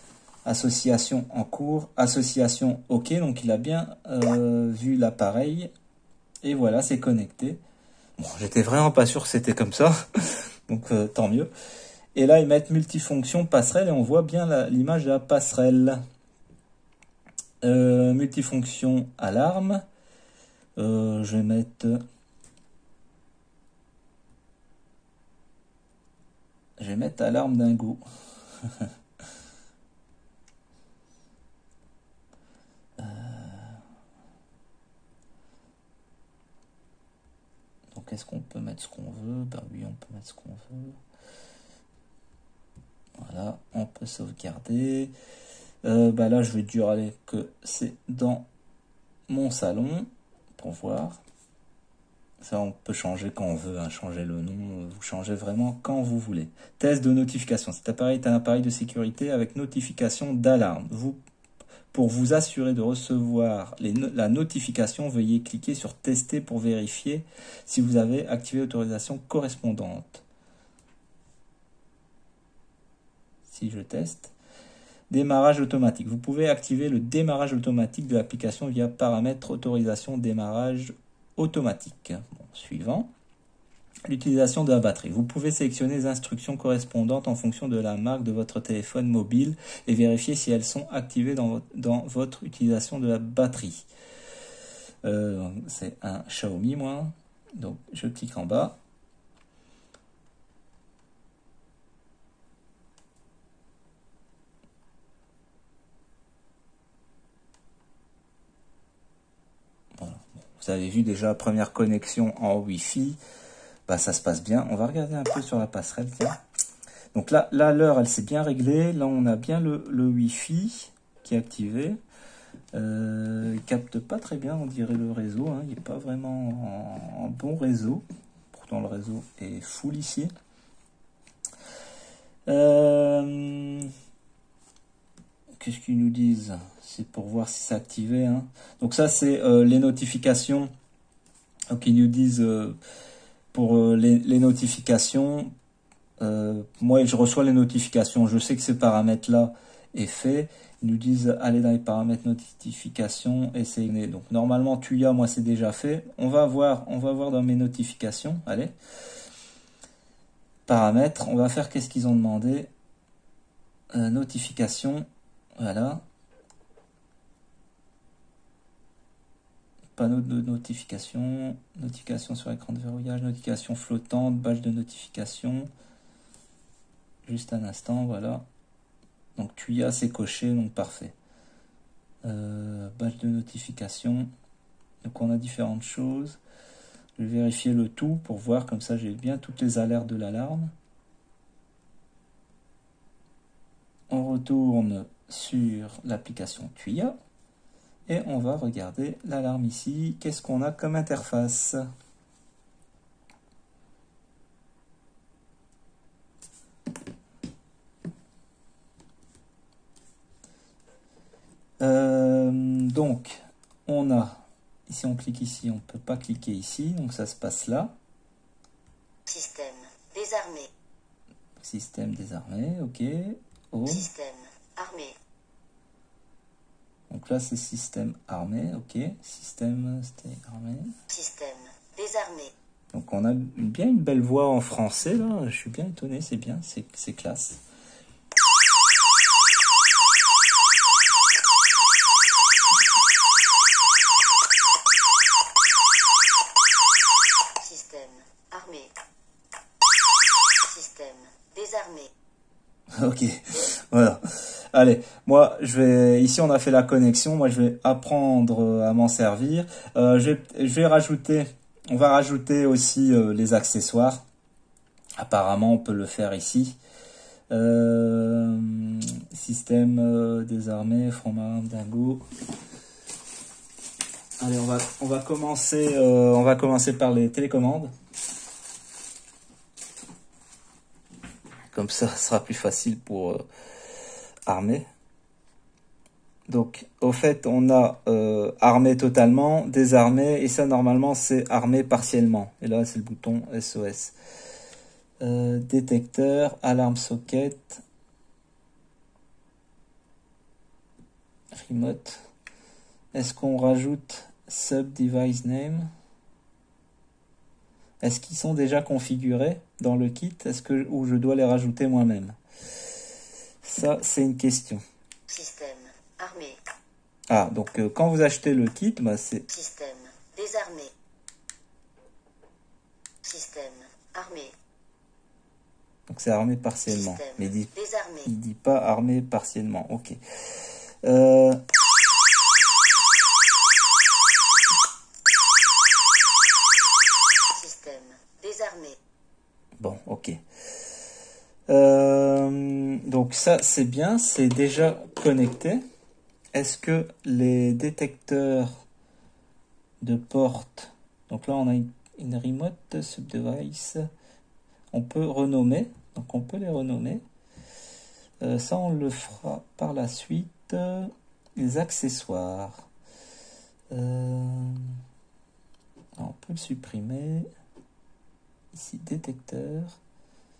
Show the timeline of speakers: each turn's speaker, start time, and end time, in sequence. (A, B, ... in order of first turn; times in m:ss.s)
0:00.4-0:05.7 A
0:06.4-0:07.6 A
0:08.2-0:11.5 A
0:12.1-0:16.0 A
0:17.6-0:19.8 A
0:20.8-0:22.0 A
0:26.8-0:28.0 A
0:33.0-0:33.8 A
0:37.9-0:41.0 A
0:43.2-0:45.1 A
0:45.8-0:48.5 A
0:49.3-0:51.2 A
0:52.4-1:01.2 A
1:01.9-1:10.2 A
1:13.5-1:14.3 A
1:15.1-1:23.1 A
1:24.0-1:33.9 A
1:35.0-1:38.8 A
1:50.0-1:53.2 A
1:53.9-1:56.4 A
1:57.1-2:02.0 A
2:02.7-2:10.3 A
2:12.4-2:13.9 A
2:15.6-2:20.7 A
2:21.7-2:22.8 A
2:23.5-2:25.5 A
2:26.2-2:38.7 A
2:40.7-2:42.7 A
2:43.9-2:45.0 A
2:45.6-2:46.0 A
2:50.0-2:55.7 A
2:57.2-2:58.4 A
2:59.4-3:01.1 A
3:02.2-3:04.3 A
3:05.0-3:06.4 A
3:07.2-3:10.7 A
3:14.1-3:17.1 A
3:18.1-3:21.8 A
3:31.8-3:37.9 A
3:39.3-3:40.7 B
3:41.6-3:44.1 A
3:44.0-3:45.2 B
3:47.1-3:50.9 A
3:51.1-3:52.5 B
3:52.9-3:57.6 A
4:07.6-4:08.9 B
4:10.7-4:12.1 B
4:13.0-4:14.2 A
4:14.7-4:24.2 A
4:25.2-4:26.8 A
4:27.5-4:32.2 A
4:34.4-4:37.9 A
4:41.7-4:43.4 A
4:44.4-4:44.8 A
4:46.5-4:54.1 A
4:55.2-4:57.8 A
5:01.5-5:02.2 A
5:03.1-5:05.9 A
5:08.0-5:12.4 A
5:13.6-5:14.8 A
5:15.3-5:16.6 B
5:17.3-5:19.5 A
5:19.5-5:20.9 B
5:23.2-5:24.5 B
5:26.1-5:30.2 A
5:31.0-5:31.6 A
5:37.5-5:39.0 B
5:39.8-5:40.4 A
5:41.7-5:45.8 A
5:46.5-5:48.7 A
5:50.0-5:54.0 A
5:54.9-5:57.2 A
5:58.4-6:02.8 A
6:03.9-6:04.9 A
6:06.2-6:07.4 A
6:08.7-6:10.0 A